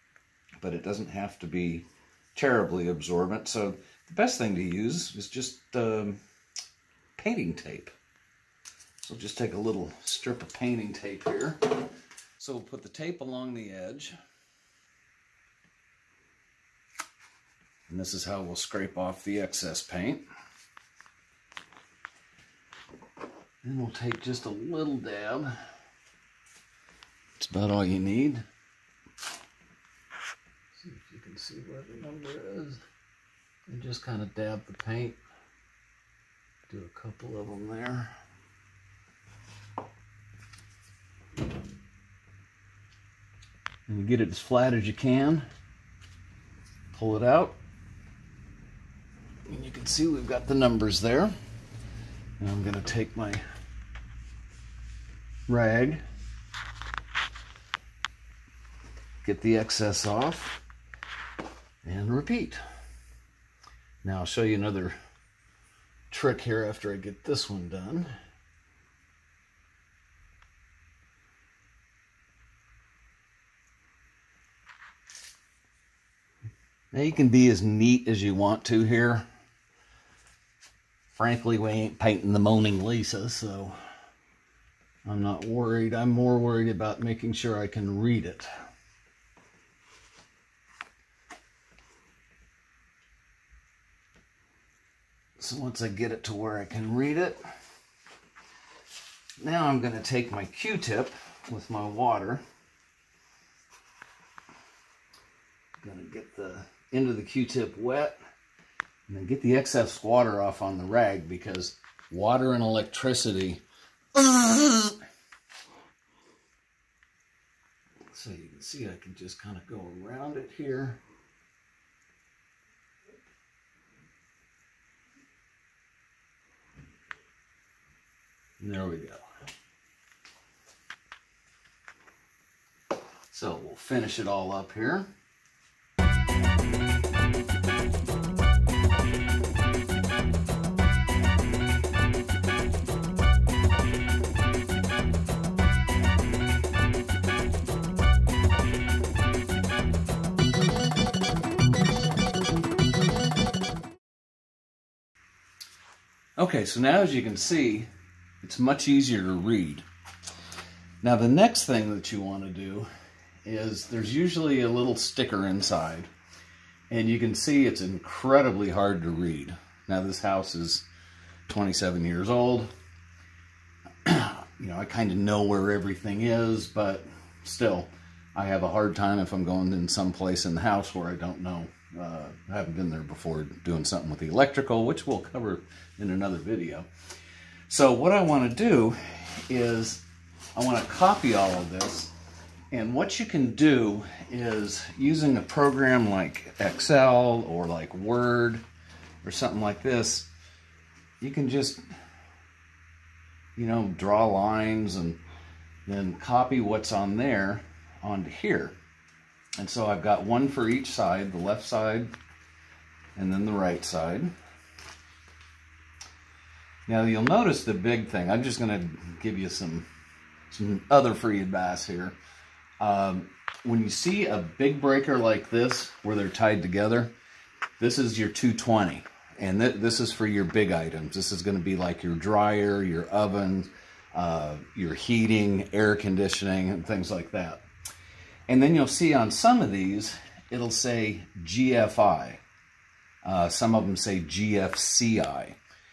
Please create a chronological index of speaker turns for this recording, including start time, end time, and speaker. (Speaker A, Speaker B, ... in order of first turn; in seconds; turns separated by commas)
Speaker A: 0.6-6.2, Speaker A: 7.2-7.9, Speaker A: 9.0-11.6, Speaker A: 12.4-14.2, Speaker A: 17.9-20.2, Speaker A: 23.6-25.5, Speaker A: 27.4-28.4, Speaker A: 30.7-32.8, Speaker A: 33.7-35.2, Speaker A: 36.7-38.1, Speaker A: 43.9-45.5, Speaker A: 46.9-47.6, Speaker A: 49.5-51.3, Speaker A: 52.4-53.4, Speaker A: 55.5-56.0, Speaker A: 59.2-60.6, Speaker A: 61.8-62.6, Speaker A: 64.0-64.9, Speaker A: 66.1-68.1, Speaker A: 76.9-79.2, Speaker A: 81.1-83.8, Speaker A: 85.0-88.5, Speaker A: 95.4-97.4, Speaker A: 99.4-102.4, Speaker A: 105.8-108.2, Speaker A: 109.1-113.6, Speaker A: 114.1-115.0, Speaker A: 118.1-121.0, Speaker A: 128.6-129.2, Speaker A: 133.3-135.1, Speaker A: 156.4-157.9, Speaker A: 158.4-159.8, Speaker A: 161.0-162.9, Speaker A: 163.4-166.1, Speaker A: 166.9-170.9, Speaker A: 171.5-172.7, Speaker A: 174.0-186.9, Speaker A: 187.7-190.0, Speaker A: 190.6-192.1, Speaker A: 192.7-198.6, Speaker A: 199.2-200.3, Speaker A: 201.2-201.8, Speaker A: 203.6-205.2, Speaker A: 205.8-208.8, Speaker A: 209.6-212.1, Speaker A: 213.2-214.3, Speaker A: 216.8-219.9, Speaker A: 220.5-222.2, Speaker A: 222.8-227.1, Speaker A: 227.8-237.6, Speaker A: 238.5-242.4, Speaker A: 243.2-245.6